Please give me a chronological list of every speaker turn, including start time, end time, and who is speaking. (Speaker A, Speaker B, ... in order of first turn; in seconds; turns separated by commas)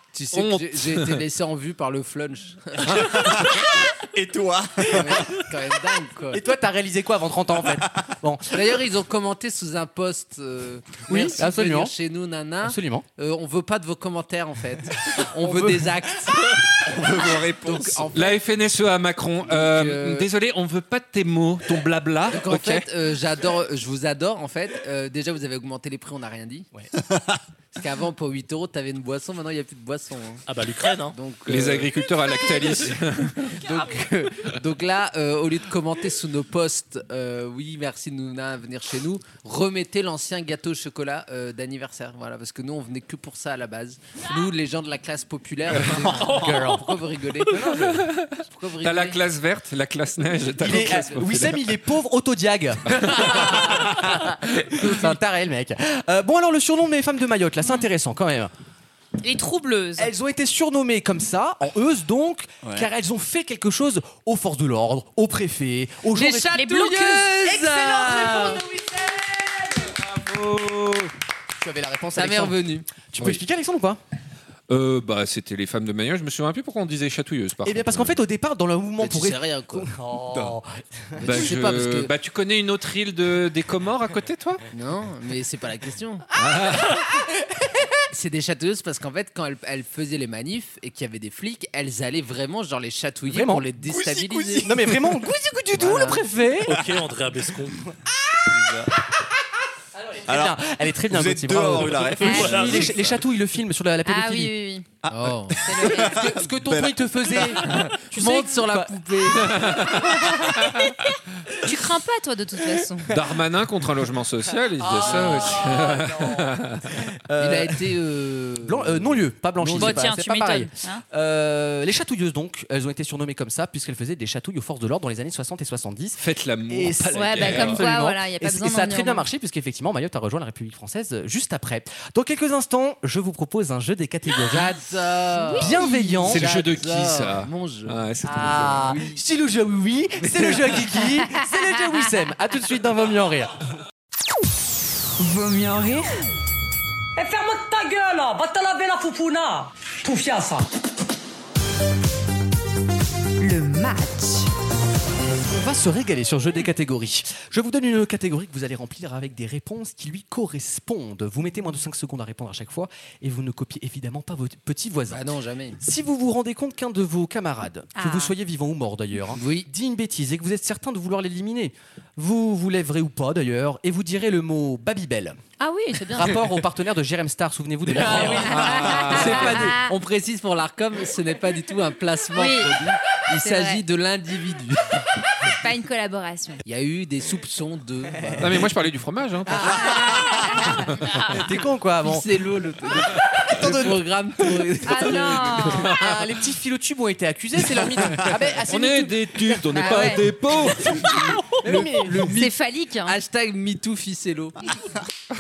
Speaker A: 0.1-3.4, Speaker B: 0.3-1.2, Speaker C: 3.0-5.5, Speaker A: 4.9-6.4, Speaker D: 6.3-8.7, Speaker A: 8.5-18.4, Speaker D: 11.1-11.9, Speaker D: 12.6-13.1, Speaker D: 15.4-15.9, Speaker C: 16.8-18.1, Speaker B: 18.1-22.9, Speaker A: 19.4-20.3, Speaker A: 22.3-26.7, Speaker C: 27.1-27.4, Speaker A: 27.7-30.4, Speaker E: 30.5-31.1, Speaker A: 31.1-31.9, Speaker B: 31.4-33.4, Speaker A: 33.4-49.2, Speaker E: 46.2-46.8, Speaker D: 46.4-46.8, Speaker B: 47.8-51.6, Speaker A: 50.5-51.3, Speaker D: 50.6-58.5, Speaker F: 59.2-60.1, Speaker D: 60.0-66.6, Speaker A: 66.1-68.6, Speaker F: 66.5-67.5, Speaker D: 67.4-69.9, Speaker B: 70.0-71.1, Speaker D: 71.6-74.0, Speaker A: 72.1-73.0, Speaker B: 74.7-78.2, Speaker D: 77.6-81.5, Speaker A: 79.0-79.9, Speaker A: 81.2-82.1, Speaker B: 81.2-84.6, Speaker A: 84.7-86.2, Speaker B: 86.3-87.0, Speaker A: 88.1-94.8, Speaker D: 93.3-93.7, Speaker C: 93.8-95.1, Speaker D: 94.6-96.8, Speaker A: 95.7-96.3, Speaker E: 96.6-97.8, Speaker C: 96.7-97.1, Speaker C: 98.5-98.9, Speaker D: 100.1-104.6, Speaker C: 100.2-103.2, Speaker E: 102.1-103.0, Speaker G: 102.2-102.5, Speaker G: 104.0-104.9, Speaker C: 105.0-107.9, Speaker A: 105.1-105.9, Speaker G: 105.6-106.2, Speaker D: 105.8-109.0, Speaker A: 107.7-109.7, Speaker B: 109.5-110.0, Speaker G: 111.6-113.1, Speaker B: 113.1-117.0, Speaker A: 114.8-115.8, Speaker D: 115.0-116.2, Speaker D: 117.3-117.7, Speaker A: 117.4-120.0, Speaker D: 118.6-134.8, Speaker F: 119.7-121.0, Speaker B: 126.2-127.9, Speaker G: 127.1-129.3, Speaker A: 134.4-139.2, Speaker G: 135.4-136.2, Speaker D: 135.5-136.5, Speaker B: 136.3-138.8, Speaker D: 138.2-143.5, Speaker A: 140.2-140.8, Speaker H: 145.2-146.2, Speaker I: 147.2-150.7, Speaker H: 153.4-154.5, Speaker D: 155.5-165.2, Speaker A: 165.1-165.8, Speaker D: 165.8-175.4, Speaker G: 167.9-168.3, Speaker A: 169.3-169.7, Speaker G: 175.6-176.4, Speaker D: 176.1-179.8, Speaker A: 177.9-185.1, Speaker B: 178.1-179.4, Speaker G: 178.5-179.9, Speaker G: 182.3-182.8, Speaker G: 183.4-183.8, Speaker G: 185.4-186.6, Speaker A: 186.6-188.7, Speaker B: 188.4-190.1, Speaker G: 189.9-190.6, Speaker D: 191.2-192.3, Speaker A: 192.0-196.0, Speaker D: 193.5-194.0, Speaker G: 194.8-195.9, Speaker D: 195.8-199.6, Speaker B: 198.6-201.0, Speaker G: 199.7-200.2, Speaker A: 200.9-204.7, Speaker D: 201.0-202.3, Speaker G: 202.1-203.1